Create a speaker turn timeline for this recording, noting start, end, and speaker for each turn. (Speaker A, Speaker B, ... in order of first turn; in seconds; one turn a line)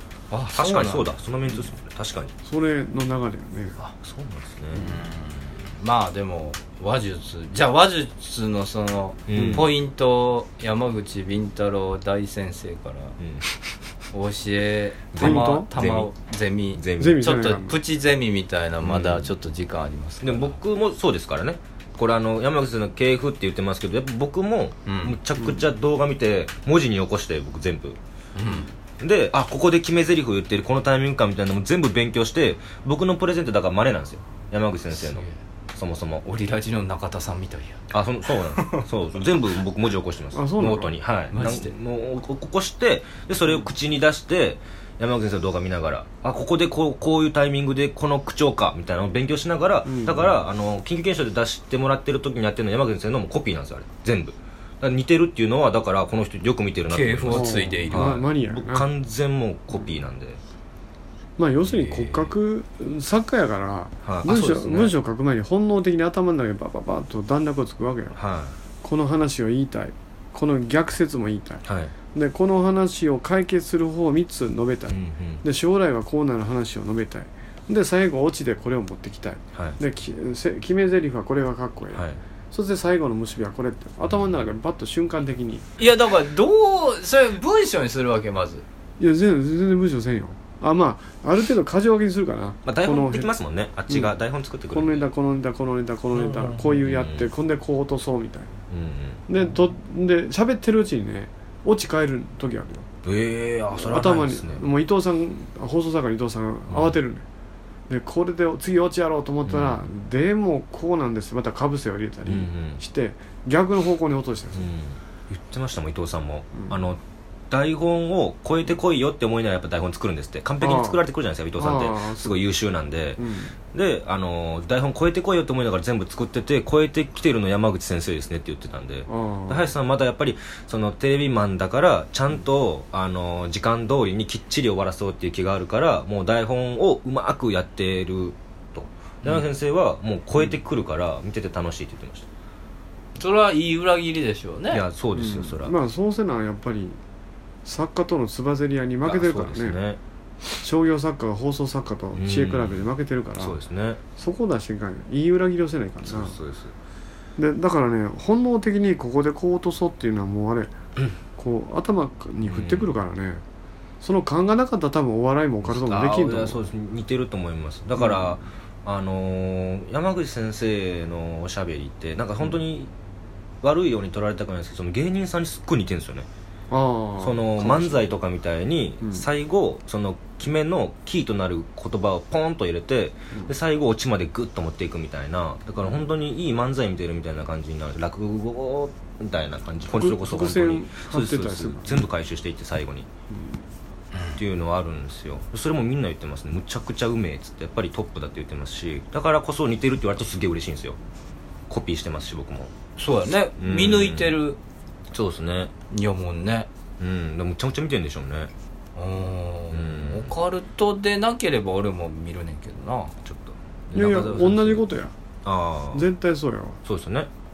Speaker A: 0.3-1.1
Speaker B: 0.5-2.3
Speaker C: 2.5-3.8
Speaker B: 3.8-4.9
Speaker A: 4.8-13.2
Speaker B: 9.3-9.7
Speaker C: 9.3-9.7
Speaker A: 14.1-20.6
Speaker B: 15.1-16.1
Speaker C: 15.2-15.7
Speaker B: 16.7-17.3
Speaker C: 17.0-17.8
Speaker B: 18.8-19.3
Speaker B: 20.2-28.0
Speaker A: 24.9-25.2
Speaker A: 28.4-28.7
Speaker B: 29.0-36.2
Speaker A: 34.9-35.4
Speaker A: 36.2-37.8
Speaker B: 37.9-60.4
Speaker A: 38.6-38.9
Speaker C: 40.3-41.0
Speaker A: 41.3-41.7
Speaker C: 49.8-50.4
Speaker A: 56.9-58.2
Speaker C: 57.3-58.9
Speaker C: 61.4-68.2
Speaker B: 61.6-62.3
Speaker B: 64.0-64.9
Speaker B: 68.1-68.5
Speaker C: 68.8-85.7
Speaker B: 71.6-71.9
Speaker B: 74.9-75.4
Speaker B: 81.9-82.2
Speaker B: 84.0-84.4
Speaker A: 85.8-88.6
Speaker C: 89.0-93.3
Speaker B: 92.7-95.1
Speaker C: 94.7-98.5
Speaker B: 96.1-97.3
Speaker B: 98.7-99.2
Speaker C: 99.3-102.9
Speaker B: 103.0-104.6
Speaker C: 103.7-107.2
Speaker B: 106.7-107.0
Speaker C: 107.9-114.7
Speaker B: 109.5-109.9
Speaker B: 112.2-112.8
Speaker B: 114.5-123.2
Speaker C: 120.6-121.0
Speaker C: 121.5-122.4
Speaker C: 123.2-123.5
Speaker B: 123.7-142.3
Speaker C: 129.1-129.7
Speaker A: 143.2-144.8
Speaker B: 144.7-145.7
Speaker C: 145.1-147.0
Speaker C: 147.6-149.8
Speaker B: 149.0-150.0
Speaker C: 150.6-153.6
Speaker B: 152.1-152.8
Speaker B: 153.4-154.0
Speaker C: 154.2-156.3
Speaker B: 156.0-156.7
Speaker C: 157.4-160.7
Speaker C: 161.4-163.4
Speaker B: 162.5-162.9
Speaker C: 164.0-166.6
Speaker B: 165.6-172.9
Speaker C: 168.0-168.3
Speaker B: 173.6-176.3
Speaker C: 176.7-178.1
Speaker B: 177.2-193.1
Speaker C: 189.9-192.1
Speaker C: 193.3-193.6
Speaker B: 194.4-201.0
Speaker B: 201.7-202.7
Speaker A: 203.0-204.6
Speaker B: 203.6-204.4
Speaker B: 205.1-205.7
Speaker A: 205.9-206.7
Speaker B: 207.0-208.5
Speaker A: 208.9-213.1
Speaker B: 209.7-210.3
Speaker B: 213.2-214.8
Speaker C: 213.9-215.1
Speaker B: 215.4-216.1
Speaker C: 215.9-216.8
Speaker B: 216.8-217.3